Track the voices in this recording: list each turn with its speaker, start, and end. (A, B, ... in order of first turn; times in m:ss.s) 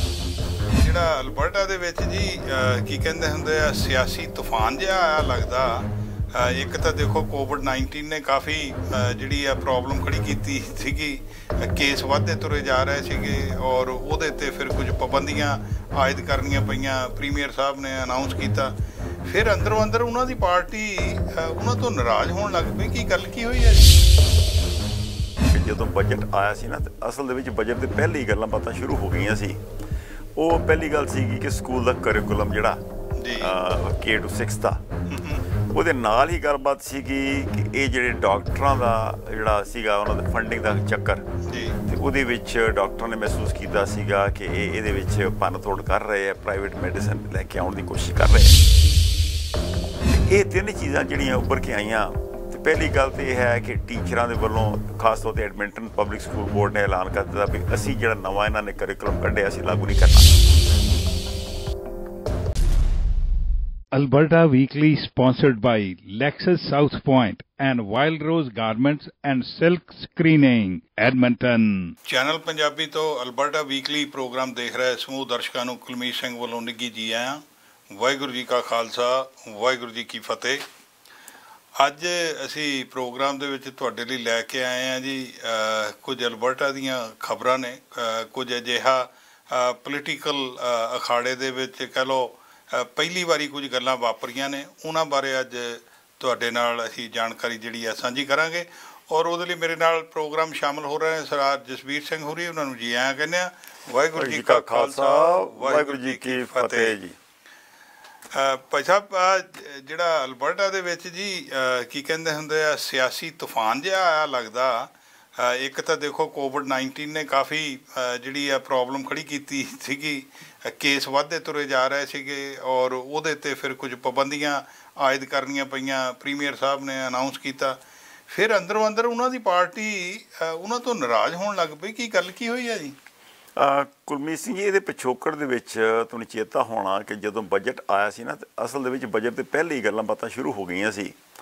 0:00.8-0:24.0 A
0:25.5-0:29.6 B
0:30.4-0:32.8 B
0:33.2-0:33.5 A
0:33.4-0:34.8 B
0:35.1-0:35.4 A
0:35.7-0:41.2 B
0:41.5-0:41.8 A
0:41.8-0:48.6 B
0:50.1-1:00.3 B
1:03.9-1:12.0 C
1:12.0-1:20.6 A
1:21.8-1:47.0 A
1:44.2-1:47.2 B
1:48.3-2:07.8 A
2:08.3-2:13.0 A
2:13.6-2:21.2 B